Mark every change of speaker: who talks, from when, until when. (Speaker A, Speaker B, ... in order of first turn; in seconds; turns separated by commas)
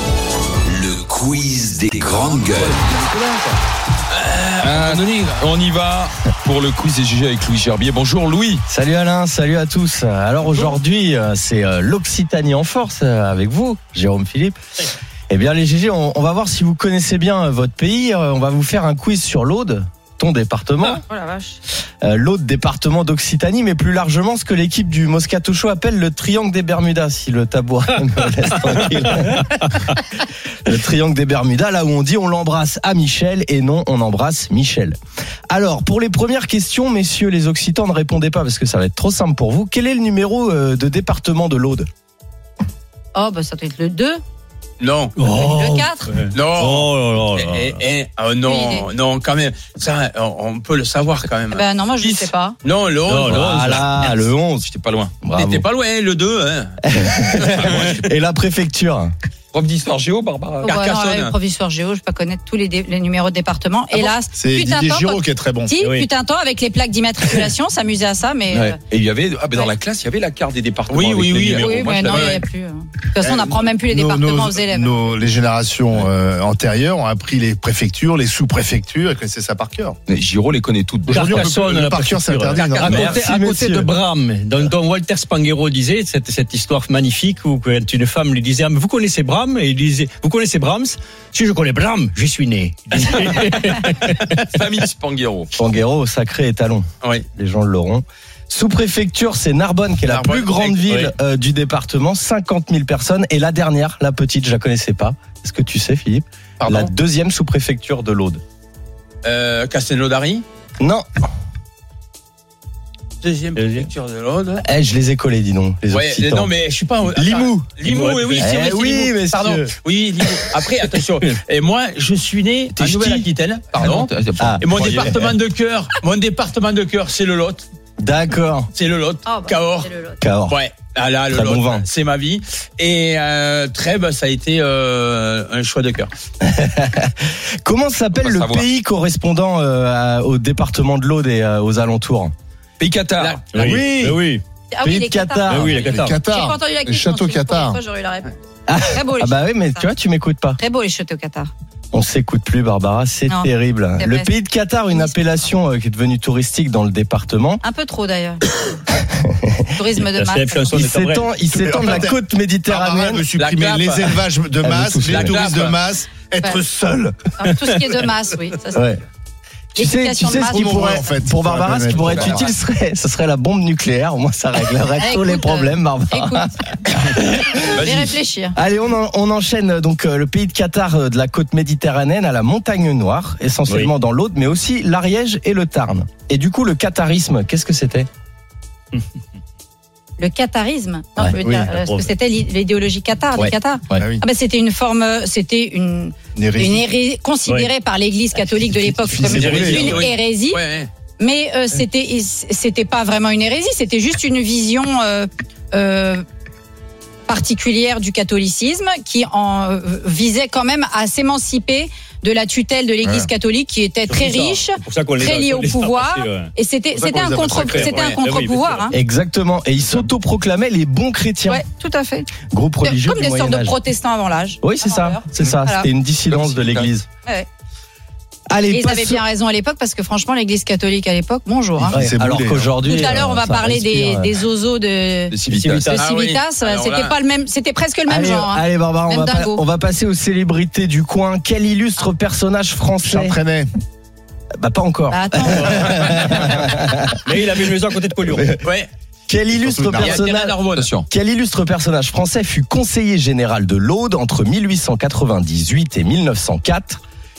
Speaker A: 0.7-3.0, Speaker B: 4.1-5.5, Speaker C: 4.6-8.6, Speaker D: 8.7-14.6, Speaker D: 15.3-21.0, Speaker E: 21.1-21.6, Speaker D: 22.0-29.7, Speaker D: 30.6-35.0, Speaker D: 35.5-41.9, Speaker E: 43.1-44.2, Speaker B: 44.8-45.2, Speaker F: 45.2-47.8, Speaker E: 45.3-46.1, Speaker B: 46.3-53.6, Speaker E: 48.5-48.9, Speaker E: 51.5-52.5, Speaker F: 53.1-54.0, Speaker D: 53.3-54.6, Speaker C: 54.1-55.1, Speaker D: 55.2-55.6, Speaker B: 55.3-56.8, Speaker D: 56.8-59.1, Speaker B: 57.4-57.8, Speaker C: 57.4-58.0, Speaker C: 59.5-60.7, Speaker B: 60.6-61.3, Speaker E: 60.7-68.8, Speaker G: 63.9-65.7, Speaker F: 65.8-66.1, Speaker C: 68.5-72.4, Speaker B: 70.9-72.4, Speaker E: 71.5-75.1, Speaker G: 73.2-80.0, Speaker C: 80.1-81.3, Speaker G: 81.1-83.2, Speaker F: 81.1-94.4, Speaker D: 82.8-83.9, Speaker C: 94.5-95.5, Speaker D: 95.5-108.4, Speaker B: 100.1-101.0, Speaker B: 106.6-106.9, Speaker B: 109.2-110.4, Speaker D: 110.8-111.0, Speaker B: 113.2-114.6, Speaker F: 113.5-113.9, Speaker D: 114.6-116.5, Speaker B: 115.9-127.6, Speaker D: 117.1-117.7, Speaker F: 117.8-118.5, Speaker D: 118.4-119.7, Speaker D: 122.8-123.2, Speaker C: 123.8-125.1, Speaker D: 124.4-125.2, Speaker D: 128.0-128.7, Speaker B: 128.7-129.9, Speaker E: 129.2-130.2, Speaker D: 130.2-130.6, Speaker B: 130.5-136.1, Speaker D: 131.3-131.8, Speaker D: 136.4-142.3, Speaker C: 138.1-138.7, Speaker C: 142.8-143.7, Speaker B: 143.2-143.4, Speaker F: 143.5-144.4, Speaker G: 143.6-144.2, Speaker E: 144.7-148.3, Speaker D: 144.8-145.8, Speaker F: 145.5-146.2, Speaker G: 145.7-147.8, Speaker D: 148.7-150.6, Speaker E: 148.9-149.9, Speaker E: 150.6-151.5, Speaker D: 151.9-157.6, Speaker E: 153.3-154.3, Speaker E: 154.9-155.3, Speaker E: 157.6-158.4, Speaker D: 159.0-159.6, Speaker E: 159.7-160.9, Speaker F: 160.0-161.8, Speaker D: 160.7-163.2, Speaker G: 161.6-167.2, Speaker B: 163.4-164.2, Speaker D: 164.6-165.5, Speaker B: 165.1-165.8, Speaker E: 167.4-168.9, Speaker D: 168.7-169.0, Speaker E: 169.8-171.0, Speaker D: 169.8-177.8, Speaker G: 170.4-172.5, Speaker C: 171.9-172.5, Speaker E: 175.0-176.5, Speaker E: 177.6-178.5, Speaker C: 177.7-178.2, Speaker D: 178.5-188.1, Speaker E: 190.2-200.6, Speaker G: 191.4-191.7, Speaker F: 191.8-192.1, Speaker G: 193.9-194.2, Speaker G: 196.3-196.9, Speaker G: 198.8-200.0, Speaker F: 199.2-200.0, Speaker B: 199.3-200.9, Speaker E: 201.2-206.2, Speaker E: 207.3-218.9, Speaker G: 213.0-213.3, Speaker F: 214.1-216.5, Speaker G: 216.9-218.0, Speaker F: 217.5-218.9, Speaker B: 217.8-218.2, Speaker D: 218.9-221.6, Speaker E: 221.5-222.3, Speaker D: 222.5-223.8, Speaker E: 222.8-225.9, Speaker D: 224.6-227.1, Speaker C: 226.3-226.9, Speaker D: 228.5-229.2, Speaker E: 228.7-232.0, Speaker G: 231.8-232.7, Speaker D: 231.9-234.4, Speaker E: 232.8-235.4, Speaker C: 235.3-236.0, Speaker D: 235.5-235.9, Speaker F: 235.5-235.8, Speaker B: 235.9-237.2, Speaker E: 235.9-239.6, Speaker D: 238.1-243.4, Speaker G: 243.0-243.7, Speaker D: 244.6-247.1, Speaker E: 245.1-246.1, Speaker F: 245.7-248.6, Speaker B: 248.6-248.9, Speaker D: 249.3-250.6, Speaker G: 249.5-250.2, Speaker B: 249.9-250.9, Speaker C: 250.7-251.1, Speaker D: 251.1-257.0